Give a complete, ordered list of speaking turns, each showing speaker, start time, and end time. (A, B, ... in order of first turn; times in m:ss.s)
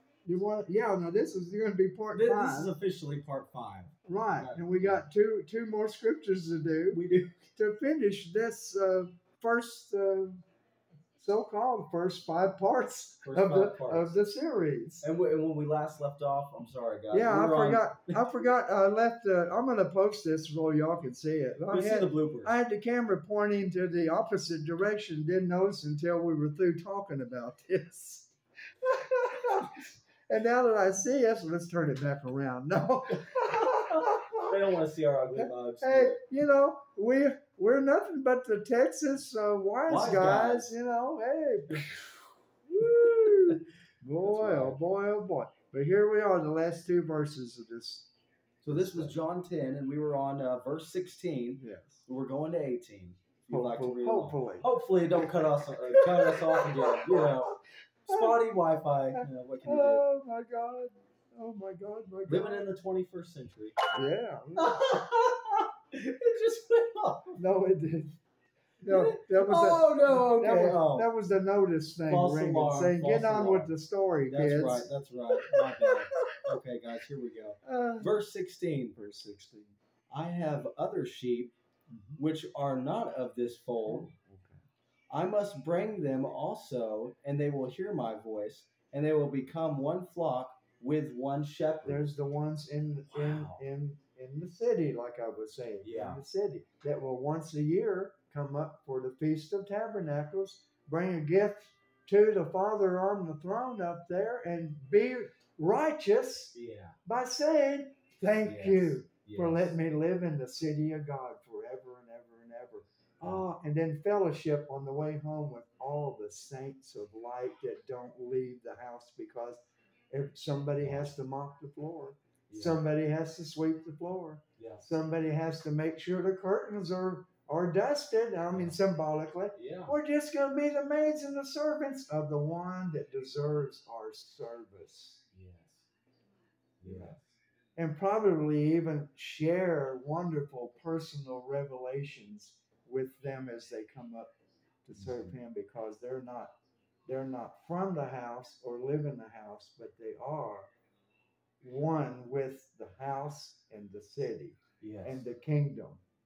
0:00.2-0:02.7 A
0:02.1-0:05.0 B
0:04.0-0:07.0 A
0:06.9-0:07.5 B
0:07.6-0:10.4 A
0:11.2-0:15.1 A
0:13.2-0:14.2 B
0:15.0-0:18.2 B
0:17.1-0:34.5 A
0:21.7-0:22.5 B
0:33.2-0:36.2 B
0:35.3-0:42.0 A
0:39.9-0:40.7 B
0:41.7-0:41.9 B
0:42.7-0:48.1 A
0:42.8-0:43.6 B
0:44.2-0:44.8 B
0:48.6-0:57.5 B
0:48.6-0:49.2 A
0:51.6-0:52.0 A
0:53.5-0:54.7 A
0:55.9-0:57.6 A
0:58.1-1:00.0 B
0:58.1-0:58.4 A
0:59.1-1:02.7 A
1:02.2-1:03.8 B
1:03.9-1:05.0 A
1:04.6-1:07.4 B
1:07.4-1:08.2 A
1:08.8-1:14.9 A
1:08.9-1:11.1 B
1:12.1-1:13.7 B
1:14.3-1:18.9 B
1:17.6-1:18.1 A
1:18.9-1:19.8 A
1:20.1-1:21.5 B
1:21.9-1:22.2 A
1:22.2-1:24.1 B
1:23.8-1:24.6 A
1:25.1-1:32.1 B
1:31.8-2:15.2 A
1:33.1-1:33.6 B
1:35.8-1:36.2 B
1:46.5-1:47.0 B
1:48.4-1:49.7 B
2:00.8-2:01.1 B
2:02.5-2:02.8 B
2:04.6-2:04.8 B
2:08.5-2:08.8 B
2:09.5-2:10.0 B
2:15.3-2:15.8 B
2:16.8-2:17.4 B
2:16.8-2:17.2 A
2:17.8-2:24.3 A
2:24.8-2:26.5 A
2:25.0-2:25.4 B
2:27.0-2:30.7 A
2:31.6-2:36.0 A
2:34.8-2:35.2 B